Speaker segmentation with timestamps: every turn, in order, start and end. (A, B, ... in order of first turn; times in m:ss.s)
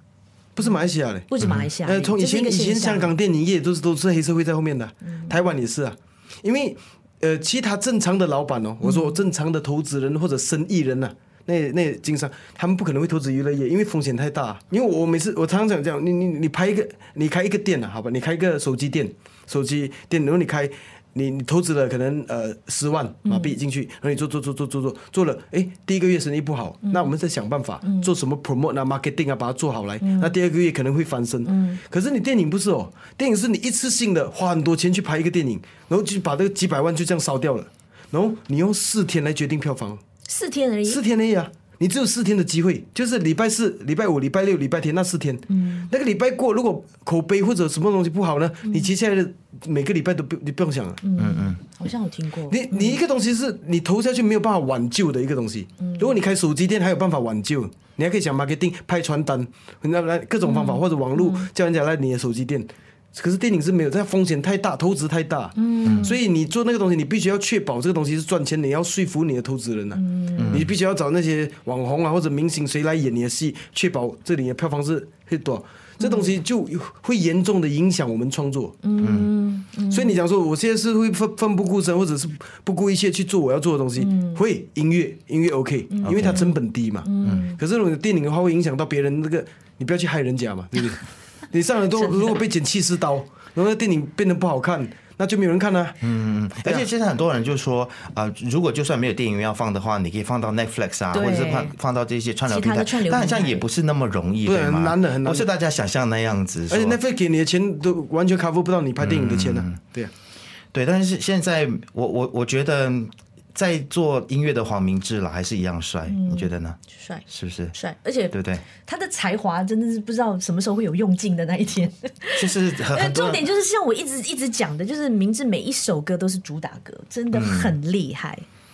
0:00.6-0:01.3 A
0:01.3-0:03.1 B
0:01.4-0:01.7 C
0:01.8-0:40.0 A
0:05.1-0:05.4 B
0:08.8-0:09.2 B
0:23.3-0:23.6 B
0:26.9-0:27.1 B
0:27.8-0:28.1 B
0:30.0-0:30.4 B
0:31.4-0:31.8 B
0:40.3-0:41.0 B
0:40.8-0:51.0 A
0:45.5-0:45.9 B
0:51.0-0:53.0 B
0:51.2-0:51.6 C
0:52.5-1:18.8 A
0:55.8-0:56.1 B
1:00.4-1:01.5 B
1:05.6-1:06.2 B
1:05.8-1:06.1 C
1:09.9-1:10.6 B
1:10.4-1:10.7 C
1:16.0-1:16.4 B
1:18.8-1:20.2 B
1:19.0-1:19.3 C
1:19.9-1:36.0 A
1:24.0-1:24.4 B
1:25.9-1:27.6 B
1:26.0-1:26.4 C
1:27.2-1:27.5 C
1:32.0-1:32.3 B
1:36.0-1:47.0 C
1:41.1-1:41.8 B
1:42.5-1:43.6 B
1:44.4-1:45.5 A
1:46.7-1:50.1 A
1:49.0-1:49.8 C
1:50.7-1:56.8 C
1:56.1-2:08.4 B
1:57.3-1:57.8 C
1:58.3-1:58.6 C
2:02.4-2:03.4 C
2:07.3-2:07.8 C